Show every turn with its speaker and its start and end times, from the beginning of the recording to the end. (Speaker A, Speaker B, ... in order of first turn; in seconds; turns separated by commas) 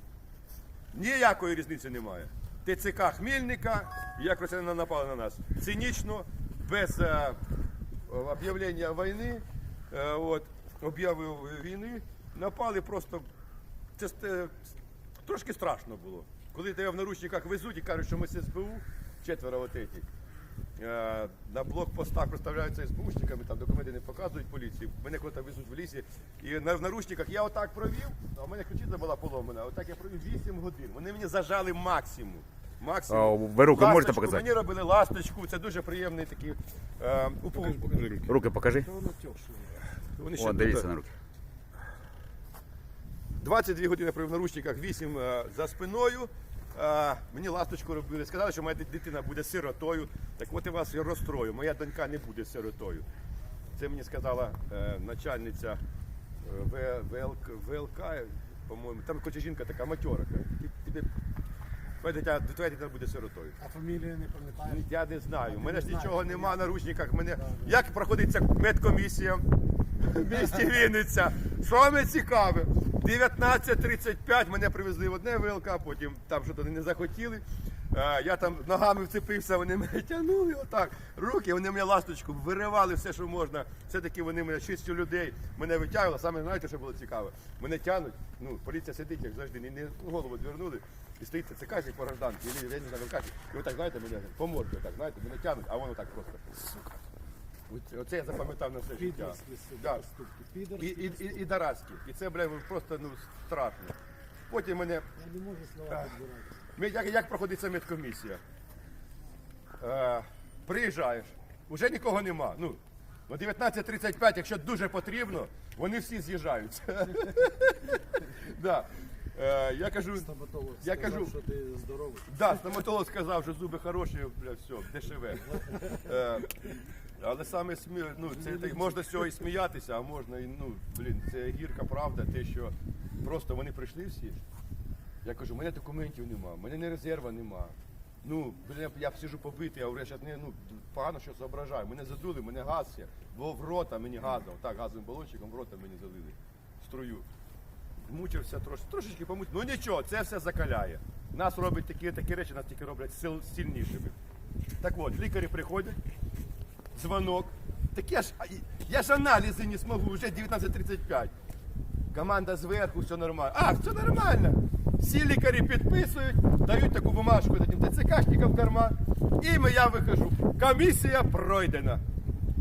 Speaker A: 0.9-7.4, Speaker A: 8.1-13.2, Speaker A: 14.0-14.7, Speaker A: 15.2-20.1, Speaker A: 20.8-38.3, Speaker B: 33.1-34.4, Speaker B: 37.8-38.9, Speaker C: 38.9-39.8, Speaker A: 40.0-40.9, Speaker B: 40.3-41.1, Speaker A: 43.4-53.0, Speaker A: 53.7-55.8, Speaker A: 56.4-61.1, Speaker A: 62.0-63.6, Speaker C: 63.6-64.8, Speaker A: 64.6-69.4, Speaker C: 65.5-66.5, Speaker A: 70.0-96.8, Speaker A: 97.7-100.0, Speaker C: 98.9-101.4, Speaker A: 100.8-104.0, Speaker A: 104.5-105.1, Speaker C: 105.2-106.5, Speaker A: 105.8-106.2, Speaker A: 106.7-108.4, Speaker A: 109.8-121.3, Speaker C: 120.2-122.3, Speaker A: 122.3-134.4, Speaker A: 135.2-147.3, Speaker A: 148.0-154.2, Speaker A: 154.8-156.0, Speaker A: 156.9-161.3, Speaker A: 162.1-172.0